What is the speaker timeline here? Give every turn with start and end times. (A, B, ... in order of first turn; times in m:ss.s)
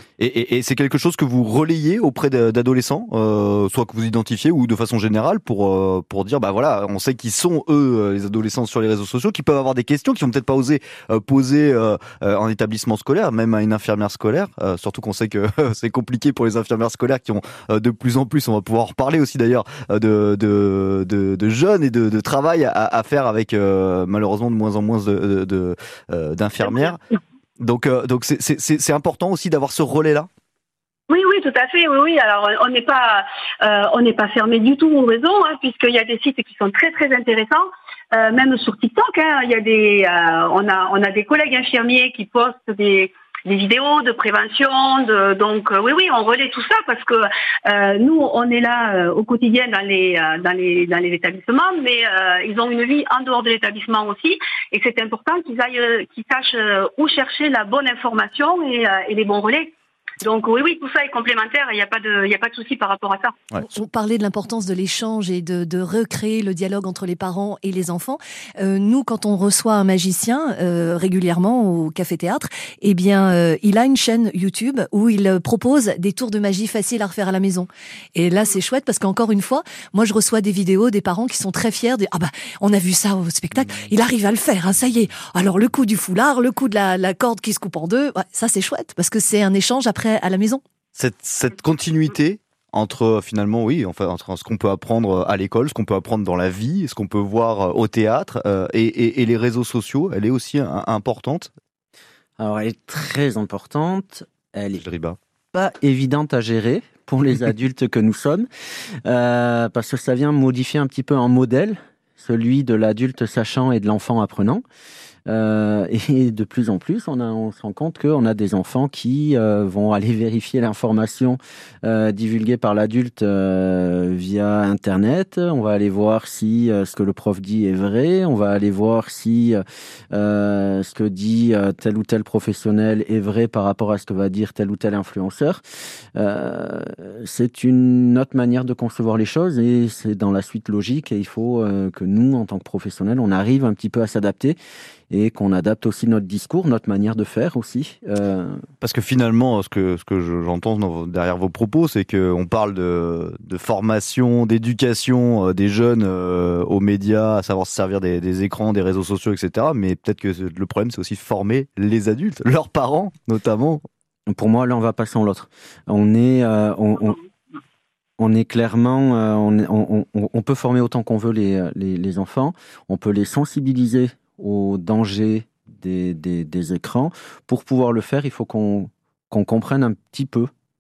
0:00.2-0:27.0 A
0:26.6-0:27.0 B
0:27.6-0:30.3 A
0:31.1-1:03.4 B
1:03.6-1:30.6 C
1:31.0-1:41.5 A
1:42.4-1:44.8 D
1:44.8-1:45.2 A
1:45.5-1:48.5 D
1:49.0-1:54.6 D
1:55.3-2:09.6 D
2:10.1-2:15.6 D
2:16.2-2:24.6 D
2:25.1-2:28.6 D
2:28.8-2:43.8 A
2:44.3-2:47.2 D
2:48.2-3:00.5 D